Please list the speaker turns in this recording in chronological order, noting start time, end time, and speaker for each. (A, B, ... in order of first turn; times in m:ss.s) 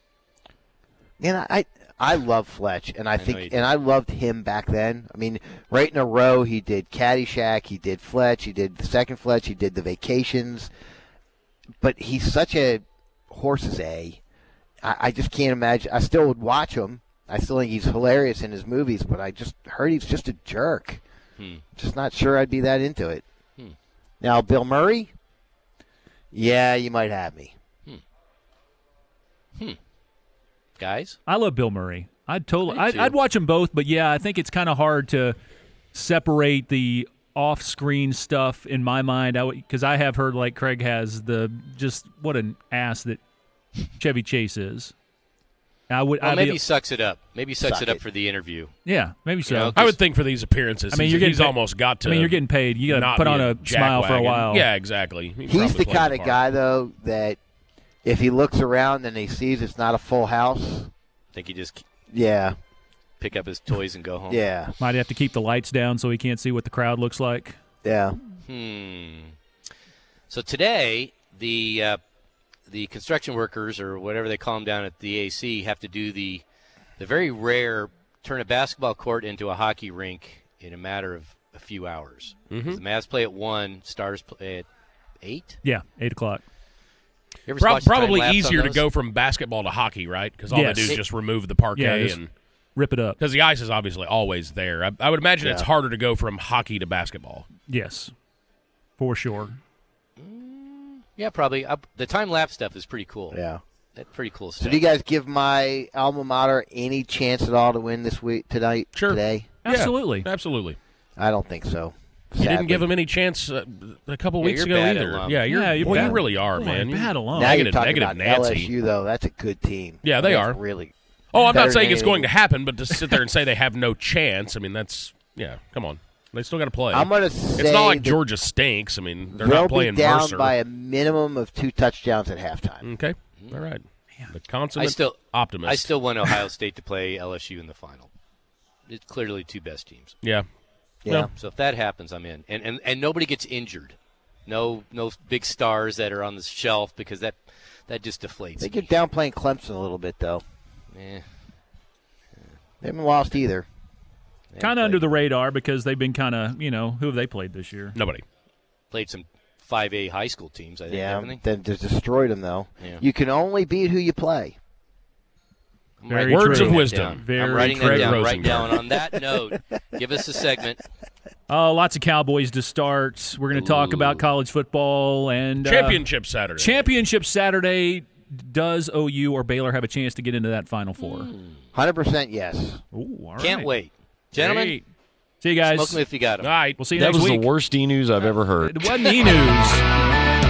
0:01.2-0:10.7 A
0:03.2-0:03.6 B
0:11.8-0:14.2 A
0:14.8-0:21.0 A
0:21.4-0:21.6 B
0:21.7-0:23.2 A
0:24.2-0:25.1 A
0:26.3-0:27.5 A
0:30.8-0:31.2 B
0:31.3-0:35.4 C
0:32.7-0:33.1 B
0:35.9-0:43.2 C
0:43.9-0:44.9 C
0:45.9-0:46.6 C
0:46.2-0:48.7 B
0:47.6-0:48.0 A
0:48.8-0:49.9 C
0:49.4-0:49.9 B
0:49.7-0:56.4 D
0:50.9-0:54.7 C
0:55.5-0:57.4 A
0:58.0-1:00.9 A
1:01.3-1:01.8 B
1:02.1-1:02.6 A
1:03.2-1:04.4 B
1:04.3-1:04.7 A
1:04.8-1:07.6 C
1:07.8-1:08.2 A
1:08.4-1:09.3 B
1:10.3-1:12.0 B
1:12.7-1:16.4 B
1:17.0-1:24.7 B
1:22.5-1:22.8 D
1:25.2-1:25.6 B
1:25.6-1:26.4 C
1:27.5-1:28.8 B
1:27.6-1:32.3 D
1:30.5-1:31.0 C
1:31.7-1:32.2 C
1:32.8-1:33.2 C
1:33.2-1:37.5 D
1:35.4-1:35.7 A
1:37.6-1:38.1 C
1:39.0-1:39.6 C
1:40.2-1:43.4 B
1:43.3-1:43.6 A
1:43.9-1:44.8 B
1:44.6-1:49.5 A
1:48.9-1:50.8 D
1:49.6-1:50.3 C
1:51.2-1:52.9 A
1:52.4-1:58.7 D
1:54.4-1:56.2 B
1:55.4-1:57.6 C
1:57.3-2:02.3 A
2:00.0-2:00.6 D
2:01.3-2:10.5 D
2:06.9-2:08.2 A
2:09.3-2:12.9 A
2:12.8-2:15.9 D
2:13.4-2:13.6 B
2:14.8-2:18.1 B
2:18.9-2:20.2 B
2:21.0-2:21.3 A
2:21.3-2:28.9 B
2:28.6-2:30.4 A
2:30.9-2:31.2 B
2:32.8-2:33.7 A
2:34.5-2:35.2 B
2:34.6-2:38.0 C
2:37.9-2:38.2 D
2:38.9-2:41.4 B
2:40.9-2:44.6 A
2:46.0-2:50.8 B
2:46.1-2:48.5 C
2:46.3-2:48.8 D
2:51.5-2:56.0 C
2:53.6-2:54.2 D
2:55.6-2:56.8 D
2:56.6-3:01.3 C
3:01.0-3:01.6 B
3:01.7-3:02.8 A
3:02.9-3:03.7 C
3:03.4-3:04.8 B
3:04.3-3:04.8 C
3:05.4-3:06.0 C
3:05.6-3:06.5 B
3:06.4-3:06.8 D
3:06.8-3:07.5 C
3:06.9-3:08.9 E
3:08.6-3:09.8 C